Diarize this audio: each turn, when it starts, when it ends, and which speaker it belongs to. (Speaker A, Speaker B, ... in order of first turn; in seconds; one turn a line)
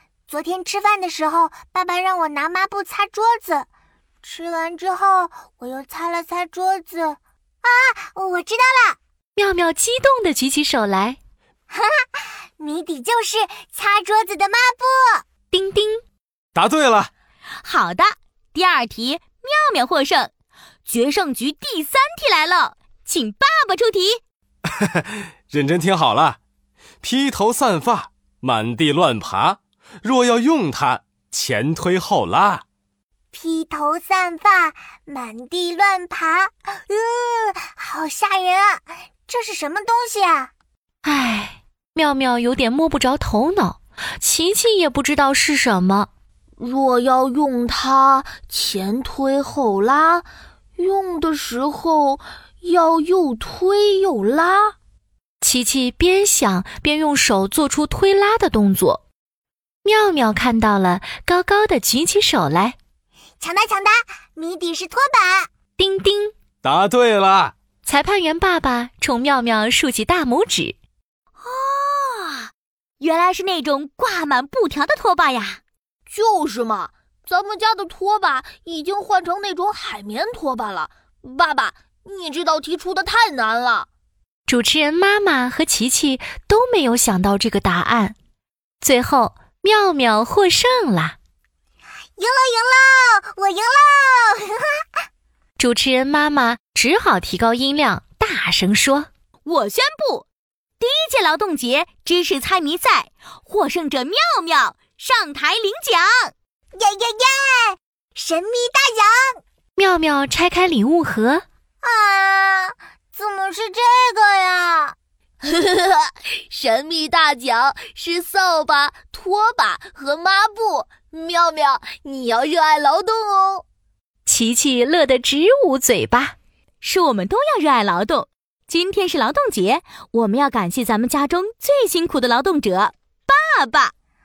Speaker A: 0.3-3.7
Speaker A: 4.2-9.0
Speaker B: 9.3-11.2
Speaker A: 11.7-15.2
Speaker B: 15.5-16.0
Speaker C: 16.5-17.1
Speaker D: 17.6-20.3
Speaker D: 20.9-24.2
Speaker C: 24.7-26.4
Speaker C: 27.0-32.6
Speaker A: 33.3-40.5
Speaker B: 41.0-46.1
Speaker E: 46.6-54.8
Speaker B: 55.4-59.0
Speaker B: 59.8-62.8
Speaker A: 63.4-65.5
Speaker B: 65.8-66.3
Speaker C: 66.6-67.5
Speaker B: 67.8-70.8
Speaker D: 71.4-75.6
Speaker E: 76.1-83.9
Speaker B: 84.5-88.2
Speaker B: 88.8-91.2
Speaker A: 92.2-94.6
Speaker B: 95.6-99.1
Speaker D: 99.5-100.2
Speaker D: 100.8-106.3
Speaker A: 106.7-109.4
Speaker B: 109.8-111.4
Speaker A: 111.8-115.0
Speaker E: 115.4-123.6
Speaker B: 124.2-126.3
Speaker D: 126.8-133.9